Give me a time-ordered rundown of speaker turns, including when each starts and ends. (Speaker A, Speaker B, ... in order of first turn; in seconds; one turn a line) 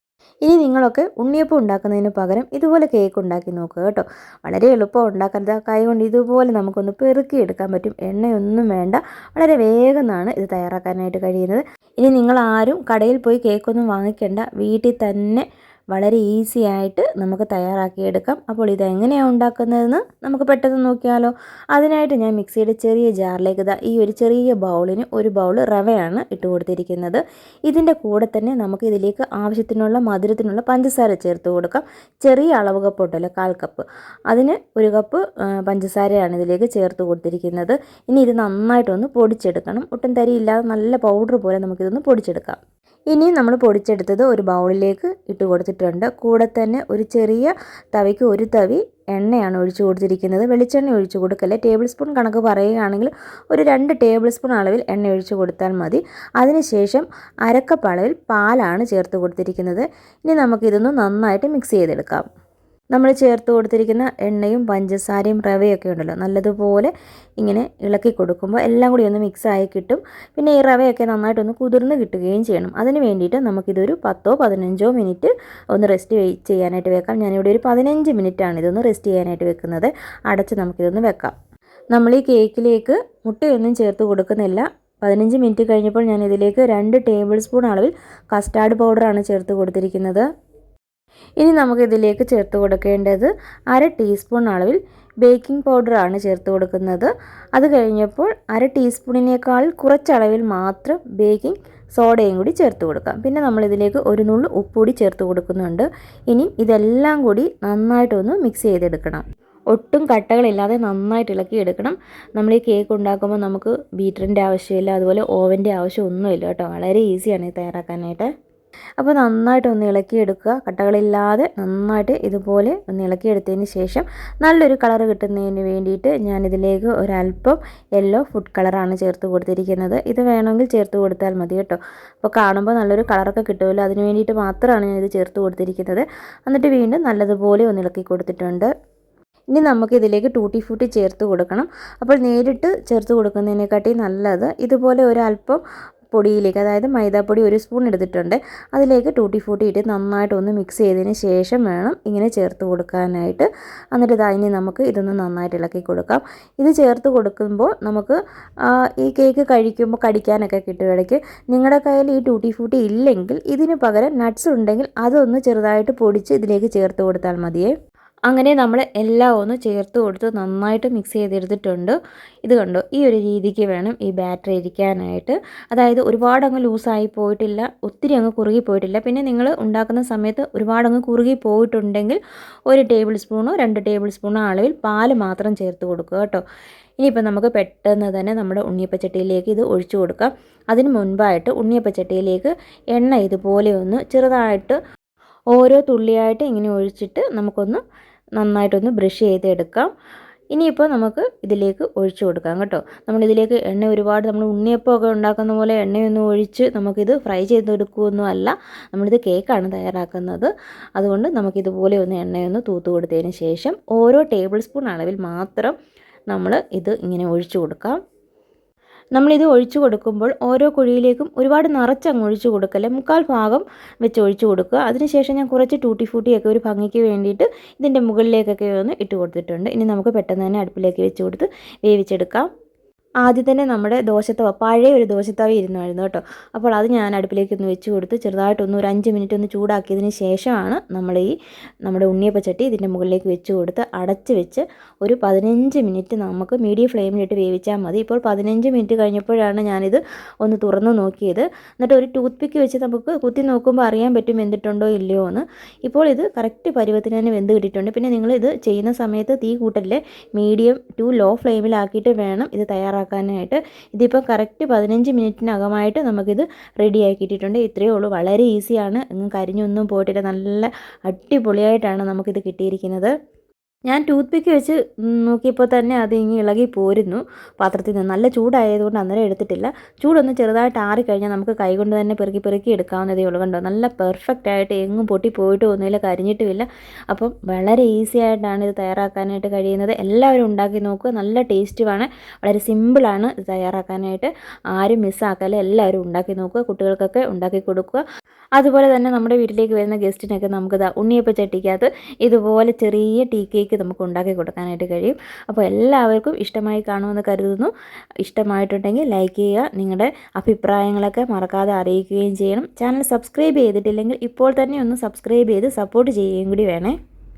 Speaker A: 0.4-42.6
Speaker A: 43.1-62.2
Speaker A: 62.9-81.3
Speaker A: 81.9-90.3
Speaker A: 91.4-118.3
Speaker A: 119.0-138.7
Speaker A: 139.5-145.6
Speaker A: 146.1-158.2
Speaker A: 159.0-167.7
Speaker A: 168.3-186.4
Speaker A: 187.0-194.8
Speaker A: 195.5-197.8
Speaker A: 198.4-199.9
Speaker A: 200.5-215.8
Speaker A: 216.3-218.0
Speaker A: 219.2-232.5
Speaker A: 233.2-241.3
Speaker A: 241.8-273.1
Speaker A: 273.9-298.0
Speaker A: 298.6-307.7
Speaker A: 308.2-316.9